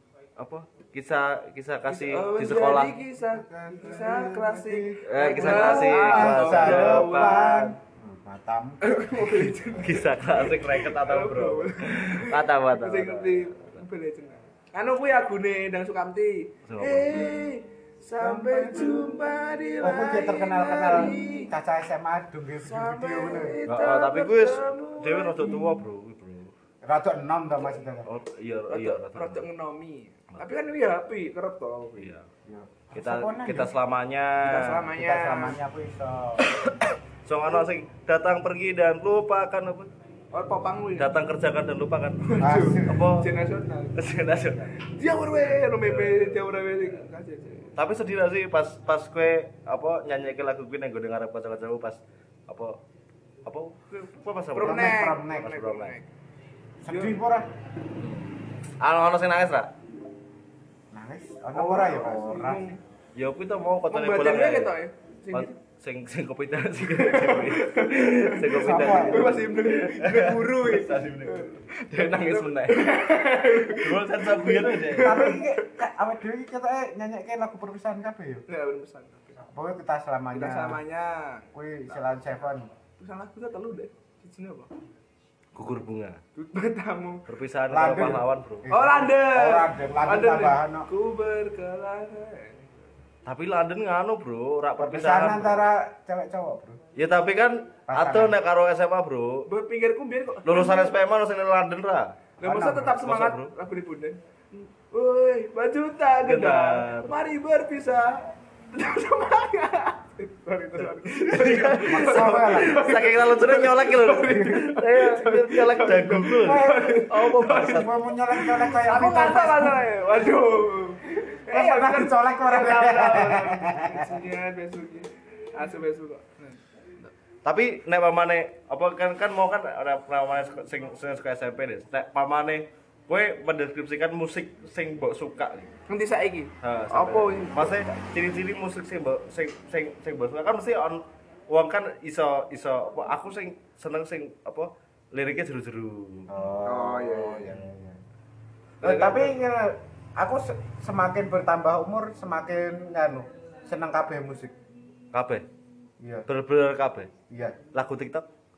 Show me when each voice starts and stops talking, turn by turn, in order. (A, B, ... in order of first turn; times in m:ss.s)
0:00.4-0:02.9 A
0:01.9-0:07.7 B
0:03.3-0:09.5 C
0:05.0-0:07.7 A
0:08.8-0:21.5 B
0:09.8-0:13.8 A
0:16.7-0:17.3 A
0:18.2-0:19.1 C
0:19.8-0:23.6 C
0:22.6-0:25.8 B
0:23.7-0:26.5 A
0:26.8-0:28.1 C
0:28.0-0:29.4 A
0:28.7-0:32.1 B
0:32.0-0:32.2 A
0:32.4-0:33.7 C
0:32.9-0:34.8 A
0:34.4-0:35.6 B
0:34.8-0:36.5 C
0:37.2-0:39.9 A
0:40.3-0:41.1 B
0:41.0-0:43.3 A
0:42.2-0:44.0 B
0:42.4-0:43.1 C
0:44.0-0:44.7 A
0:44.8-0:47.7 B
0:45.4-0:46.4 A
0:47.8-0:52.8 A
0:53.4-0:55.9 A
0:54.5-0:56.1 B
0:54.6-0:55.5 C
0:56.8-0:57.5 C
0:56.9-0:57.2 B
0:58.0-0:59.7 A
1:00.9-1:02.7 C
1:01.5-1:02.8 B
1:03.1-1:04.7 A
1:03.9-1:05.6 B
1:05.3-1:15.3 A
1:06.8-1:15.6 B
1:08.5-1:09.4 C
1:15.0-1:18.4 C
1:18.5-1:19.4 B
1:19.5-1:20.8 C
1:20.3-1:21.5 B
1:21.5-1:22.7 C
1:23.0-1:24.7 B
1:25.5-1:26.2 A
1:26.4-1:27.2 B
1:27.3-1:28.7 A
1:27.7-1:30.9 C
1:28.7-1:32.9 B
1:33.2-1:35.7 A
1:34.8-1:36.8 C
1:37.0-1:39.5 A
1:37.9-1:38.4 C
1:39.5-1:40.9 B
1:40.4-1:42.2 A
1:42.4-2:07.1 B
1:42.4-1:43.0 C
1:42.9-1:43.5 A
1:46.2-1:47.1 A
1:50.8-1:57.9 A
1:51.8-1:52.9 C
1:54.3-1:54.6 C
1:56.4-1:59.8 C
2:01.5-2:04.2 C
2:07.4-2:15.7 A
2:15.9-2:18.0 B
2:16.6-2:26.3 A
2:26.3-2:28.0 C
2:26.6-2:27.5 B
2:28.8-2:29.4 A
2:28.8-2:34.5 C
2:35.1-2:35.4 A
2:36.0-2:36.3 C
2:36.3-2:37.1 A
2:37.3-2:37.6 C
2:37.7-2:38.2 A